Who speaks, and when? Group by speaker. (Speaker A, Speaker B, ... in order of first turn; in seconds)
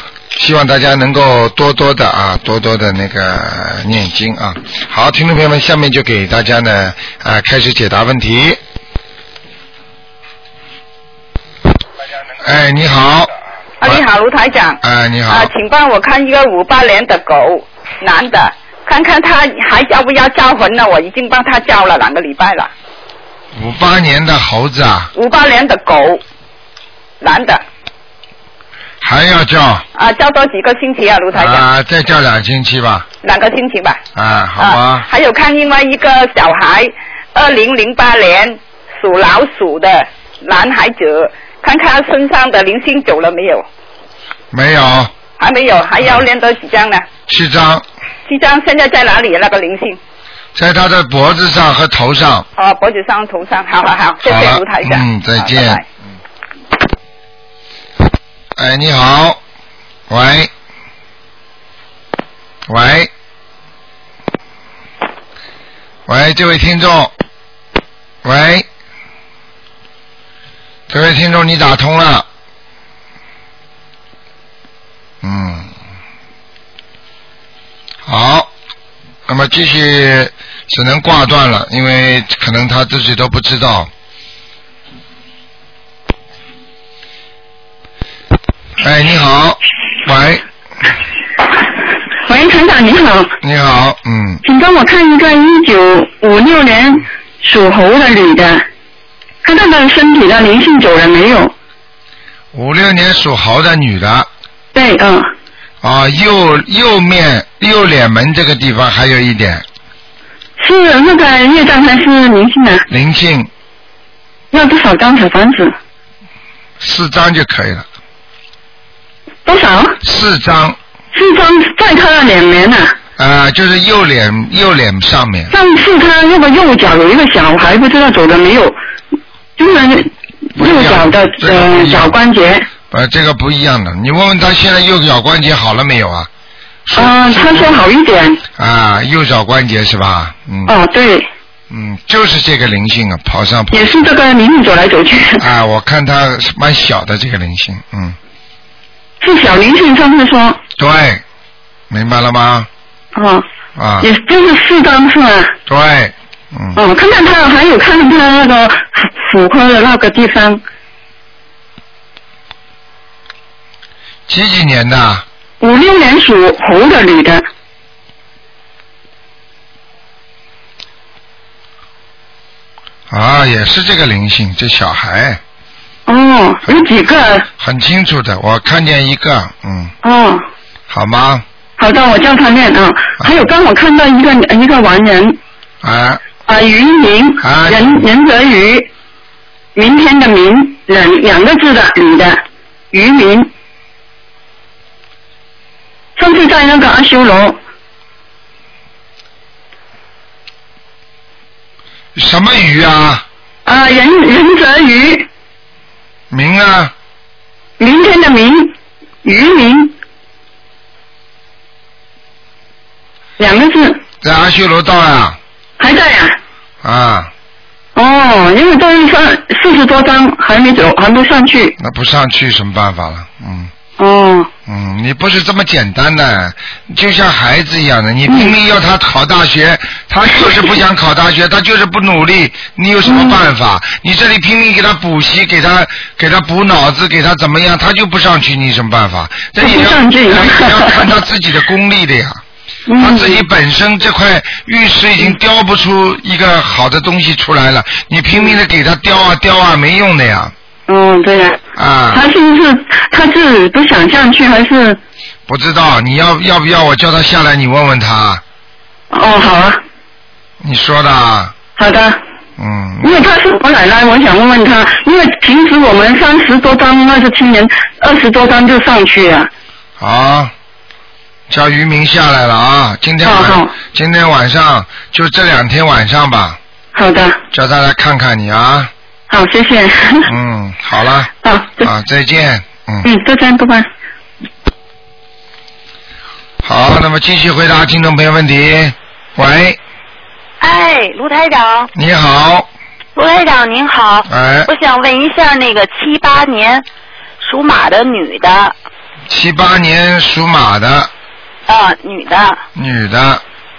Speaker A: 0.3-8.6, 12.4-14.0, 14.8-15.5, 23.5-25.1, 29.0-29.8, 31.3-33.1, 34.1-35.1, 44.5-45.1, 47.3-47.8, 50.5-52.5, 54.2-55.8, 58.5-59.4, 60.1-60.5, 62.7-63.1, 66.1-67.1, 68.2-68.7, 70.9-72.3, 75.2-75.7, 78.0-78.5, 79.3-83.9, 88.8-90.4, 93.4-94.4, 102.5-104.3, 105.8-109.6, 112.9-113.5, 116.8-117.8, 120.0-120.8, 123.2-125.5, 130.6-132.2, 132.9-136.3, 136.8-137.7, 138.6-140.8, 141.7-144.1, 145.4-148.2, 150.8-151.2, 151.9-152.7, 153.8-154.1, 155.7-156.8, 164.3-165.2, 173.1-175.4, 177.5-179.9, 180.9-181.4, 185.8-186.2, 187.4-188.0, 202.1-203.2, 206.3-206.9, 214.2-215.4, 216.8-217.3, 221.8-223.7, 224.7-242.4, 243.0-250.5, 251.8-252.2, 255.5-258.4, 260.6-261.6, 262.6-263.1, 270.0-270.5, 271.5-276.6, 277.5-278.9, 280.2-283.1, 286.6-289.8, 291.9-292.7, 294.3-294.7, 299.3-301.1, 302.8-303.4
Speaker B: 13.8-22.7, 25.1-26.2, 27.2-27.6, 29.9-31.6, 33.2-34.0, 34.6-43.7, 45.4-47.0, 48.3-50.0, 52.5-55.8
Speaker C: 92.2-93.3, 94.4-98.6, 99.4-101.5, 104.7-105.3, 110.6-112.8, 114.5-115.7, 119.4-120.0, 121.1-123.0, 125.5-128.8, 129.6-132.7, 136.9-138.4, 140.7-141.3, 143.7-145.4, 149.2-150.6, 153.1-153.4, 154.0-155.6, 156.8-160.6, 165.6-167.4, 176.1-177.5, 180.0-180.4, 181.8-185.4, 186.4-188.9, 189.7-193.5, 196.2-197.6, 203.6-205.3, 207.8-209.9, 213.4-214.0, 215.8-216.4, 217.9-221.8, 224.0-224.5, 228.3-228.5, 233.0-233.4, 239.6-241.1, 242.9-243.4, 250.9-251.6, 252.1-255.0, 259.1-259.8, 261.8-262.2, 263.0-269.5, 273.2-273.7, 276.9-277.4, 279.3-280.3, 281.4-281.9, 283.0-283.9
Speaker D: 290.6-291.9, 293.1-296.8, 297.4-298.7, 301.7-302.6